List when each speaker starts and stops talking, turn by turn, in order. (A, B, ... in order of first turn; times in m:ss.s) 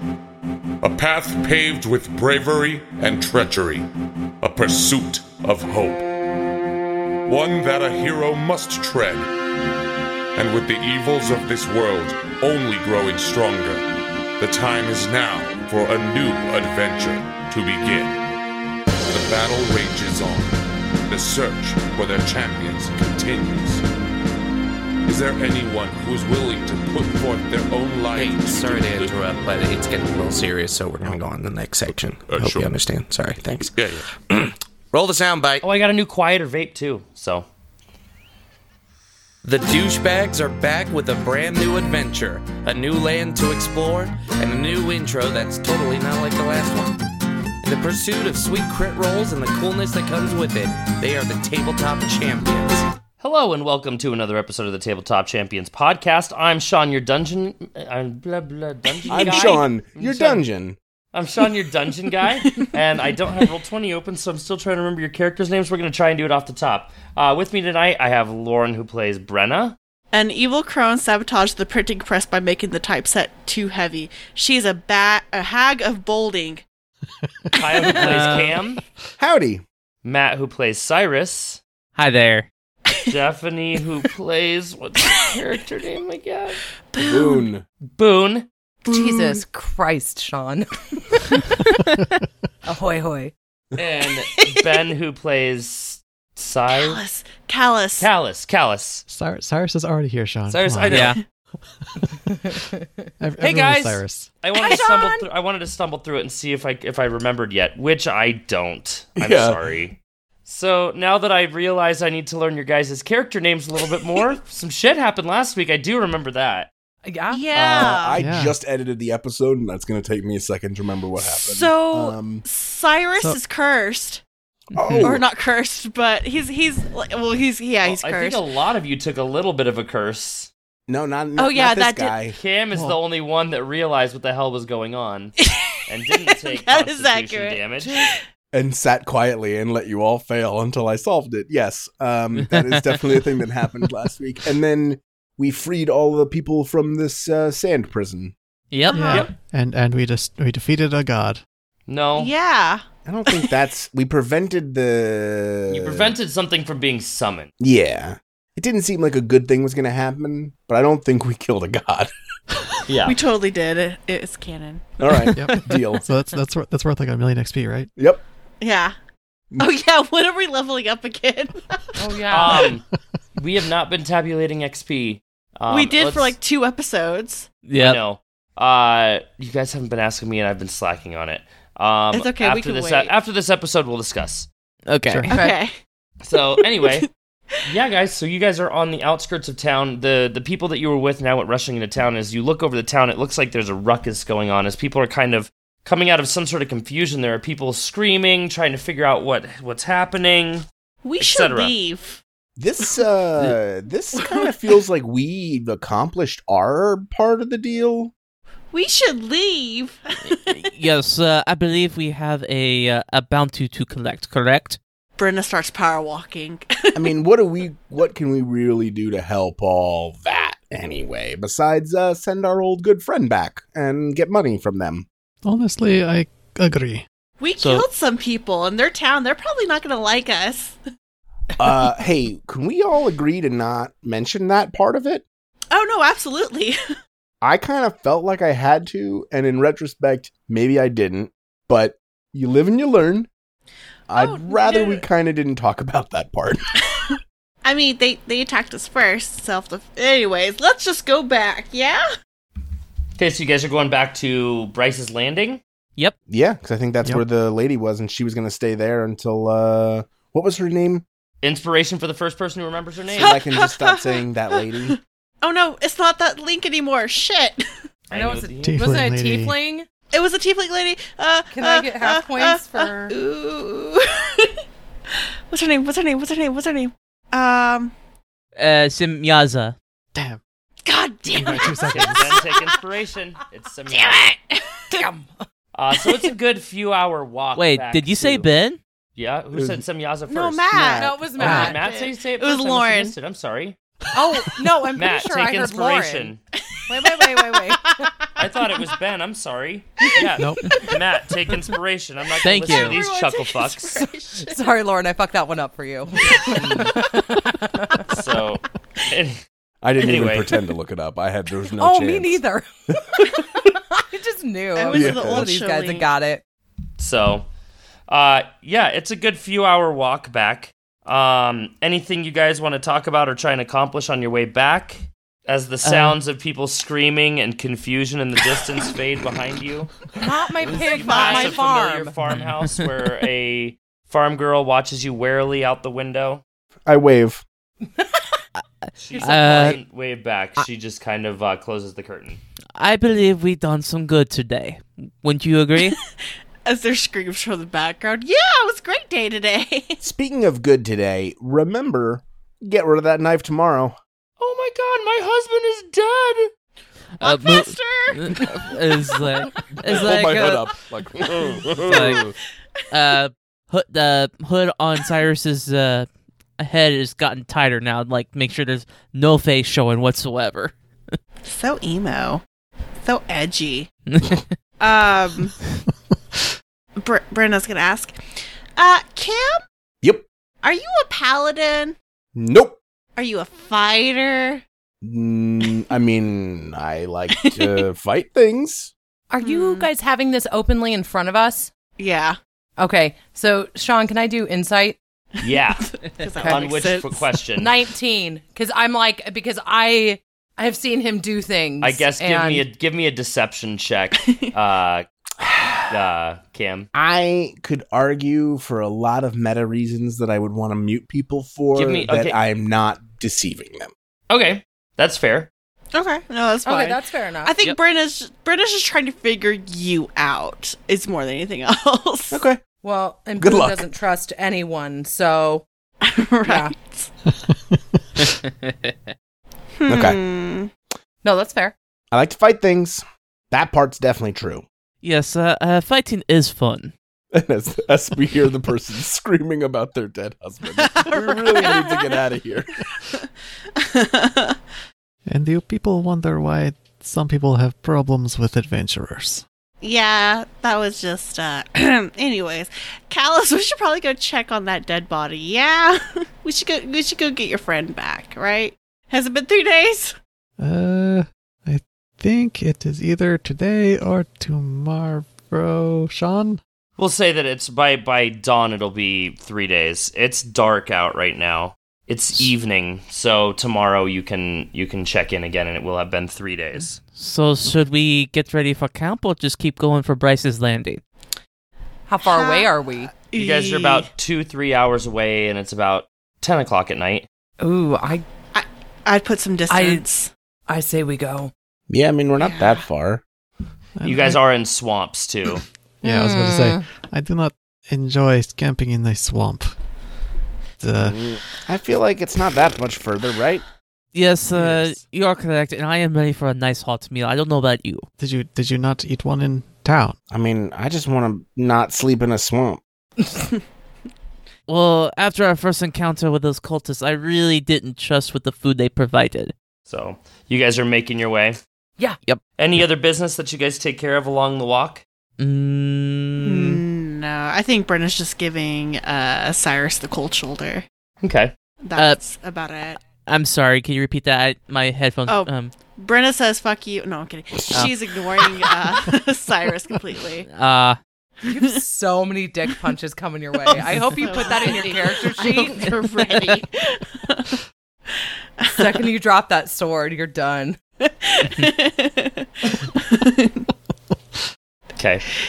0:00.8-0:03.9 A
0:04.4-0:06.1 A
0:07.2-0:09.3 A
0:10.3-0:13.8 A
0:14.4-0:18.2 A
0:19.1-0:23.8 A
0:25.0-0:29.1 A
0:28.1-0:35.6 B
0:32.2-0:32.8 A
0:33.7-0:34.0 A
0:35.6-0:37.4 C
0:39.4-0:47.0 B
0:47.6-0:52.8 B
0:53.2-1:00.4 C
0:59.0-0:59.6 D
0:59.1-1:00.8 E
1:01.1-1:09.8 C
1:10.1-1:16.6 D
1:17.5-1:18.8 C
1:18.0-1:18.5 F
1:19.2-1:19.6 E
1:20.0-1:21.6 C
1:22.0-1:22.5 F
1:23.1-1:26.6 C
1:26.9-1:27.5 D
1:27.0-1:27.6 E
1:28.0-1:28.5 C
1:28.9-1:29.4 D
1:28.9-1:31.8 G
1:32.6-1:33.3 G
1:33.8-1:37.0 C
1:34.3-1:34.7 D
1:36.7-1:38.1 D
1:38.0-1:39.0 C
1:39.1-1:41.1 H
1:40.5-1:41.1 C
1:40.9-1:41.2 F
1:43.2-1:44.3 H
1:43.4-1:56.7 C
1:44.6-1:45.2 D
1:49.2-1:49.6 E
1:57.0-1:57.5 G
1:57.3-1:58.2 D
1:57.5-2:02.4 E
1:58.2-1:58.5 H
2:01.2-2:04.2 D
2:04.7-2:05.2 F
2:04.7-2:05.2 E
2:05.0-2:08.4 D
2:07.8-2:10.5 C
2:10.9-2:12.4 E
2:11.4-2:12.2 D
2:12.3-2:15.3 C
2:15.4-2:15.7 D
2:15.9-2:18.0 C
2:16.3-2:18.2 D
2:18.5-2:28.3 E
2:22.5-2:22.8 F
2:28.7-2:29.2 F
2:28.9-2:29.3 D
2:28.9-2:31.4 H
2:31.9-2:32.3 C
2:32.2-2:33.5 D
2:33.0-2:36.1 E
2:35.7-2:37.5 C
2:37.6-2:42.1 E
2:42.9-2:43.2 C
2:43.0-2:44.9 D
2:45.0-2:46.0 E
2:45.3-2:47.9 H
2:48.6-2:48.9 D
2:49.6-2:51.9 D
2:52.0-2:52.7 G
2:52.3-2:52.8 C
2:53.4-2:56.4 C
2:55.7-2:57.5 D
2:57.6-2:58.0 F
2:57.8-3:04.5 C
3:02.1-3:03.1 D
3:04.9-3:05.3 F
3:05.3-3:05.6 G
3:05.3-3:05.7 D
3:06.2-3:07.1 C
3:07.6-3:20.6 C
3:21.0-3:22.2 D
3:21.2-3:21.7 C
3:22.6-3:28.1 E
3:24.2-3:24.5 D
3:28.7-3:30.6 D
3:30.2-3:34.8 F
3:35.2-3:37.0 D
3:36.9-3:45.0 E
3:45.4-3:47.0 H
3:47.4-3:50.8 D
3:47.6-3:47.8 F
3:51.6-3:55.2 E
3:55.7-3:56.7 D
3:57.4-4:03.3 E
4:04.1-4:06.6 E
4:04.2-4:05.0 D
4:07.0-4:12.0 D
4:13.2-4:15.6 C
4:16.3-4:21.0 E
4:21.4-4:23.4 C
4:23.2-4:25.0 E
4:23.2-4:24.6 D
4:25.4-4:27.6 D
4:28.1-4:28.9 C
4:28.1-4:29.8 G
4:28.6-4:29.5 H
4:30.1-4:34.5 D
4:31.5-4:33.1 G
4:35.5-4:37.9 D
4:38.6-4:39.7 F
4:40.1-4:40.4 H
4:40.8-4:42.7 D
4:41.3-4:42.4 H
4:41.9-4:44.2 C
4:43.9-4:45.0 D
4:44.9-4:45.4 G
4:45.7-4:48.4 C
4:47.6-4:48.8 F
4:49.2-4:50.7 C
4:49.5-4:49.8 E
4:50.3-4:53.1 D
4:50.9-4:51.8 G
4:51.3-4:53.8 C
4:51.4-4:51.7 H
4:54.1-4:56.3 G
4:55.0-4:56.4 C
4:56.7-4:58.5 D
4:56.9-4:58.0 G
4:58.4-5:04.0 C
5:02.4-5:03.0 F
5:02.6-5:04.7 D
5:04.4-5:08.0 G
5:06.5-5:06.9 C
5:08.0-5:09.4 C
5:09.8-5:12.4 E
5:10.0-5:10.5 C
5:11.8-5:12.7 G
5:13.3-5:16.4 G
5:14.7-5:16.1 D
5:14.9-5:15.5 E
5:17.0-5:17.5 C
5:18.1-5:30.0 C
5:25.8-5:26.2 F
5:30.2-5:32.2 G
5:30.6-5:36.4 C
5:30.9-5:31.6 D
5:32.3-5:32.8 F
5:36.8-5:37.4 E
5:39.0-5:42.4 C
5:39.1-5:39.8 G
5:39.2-5:39.8 F
5:42.8-5:46.0 F
5:46.6-5:50.0 D
5:50.0-5:54.0 E
5:54.4-5:56.5 C
5:57.2-6:00.8 F
5:57.2-5:59.4 D
5:59.7-6:02.3 A
6:00.2-6:00.6 E
6:01.4-6:02.2 F
6:02.9-6:06.1 F
6:06.6-6:11.2 F
6:11.4-6:12.4 D
6:13.0-6:13.9 D
6:14.1-6:14.5 F
6:14.8-6:15.6 D
6:17.0-6:18.2 D
6:18.8-6:19.6 D
6:20.6-6:21.9 D
6:22.3-6:22.8 E
6:23.2-6:24.6 D
6:25.0-6:28.9 E
6:27.4-6:27.8 D
6:29.3-6:31.7 G
6:29.4-6:29.9 D
6:32.0-6:32.4 D
6:32.8-6:35.0 G
6:35.4-6:37.7 C
6:35.8-6:37.2 D
6:37.6-6:42.6 G
6:41.8-6:45.1 C
6:45.4-6:45.9 E
6:45.9-6:46.9 C
6:46.9-6:53.9 E
6:51.7-6:52.4 C
6:54.3-6:55.5 C
6:55.9-7:02.4 D
6:56.6-6:57.5 G
7:02.3-7:02.6 E
7:02.8-7:05.6 G
7:03.4-7:03.9 E
7:06.0-7:07.1 D
7:06.4-7:06.7 G
7:07.4-7:08.2 H
7:08.2-7:09.1 F
7:09.8-7:10.7 D
7:09.9-7:10.2 E
7:11.2-7:11.7 G
7:12.1-7:14.6 E
7:15.0-7:16.9 F
7:17.3-7:22.8 E
7:20.8-7:22.1 D
7:23.8-7:24.6 D
7:25.3-7:29.4 H
7:29.8-7:40.2 D
7:40.6-7:46.6 H
7:47.0-7:57.0 C
7:57.1-8:01.0 F
8:02.1-8:03.1 G
8:02.2-8:04.1 D
8:03.3-8:07.3 C
8:07.6-8:08.2 G
8:08.5-8:10.3 D
8:09.7-8:10.0 G
8:10.7-8:11.5 G
8:11.9-8:13.2 E
8:12.4-8:12.8 D
8:14.0-8:14.4 H
8:14.0-8:15.6 C
8:16.0-8:19.7 H
8:16.0-8:16.8 G
8:20.8-8:21.2 H
8:21.0-8:23.6 E
8:24.1-8:28.0 F
8:24.5-8:25.0 H
8:28.2-8:30.2 H
8:30.3-8:32.8 E
8:34.7-8:39.5 F
8:39.9-8:41.6 C
8:42.6-8:45.0 C
8:45.4-8:46.8 F
8:46.4-8:50.8 D
8:51.2-8:51.5 C
8:51.8-8:53.0 D
8:53.2-8:55.7 F
8:55.3-9:00.5 D
9:00.5-9:01.0 F
9:01.4-9:06.4 G
9:01.4-9:01.8 D
9:03.6-9:07.6 D
9:08.6-9:09.0 D
9:08.7-9:10.8 G
9:11.0-9:13.7 D
9:15.0-9:15.2 C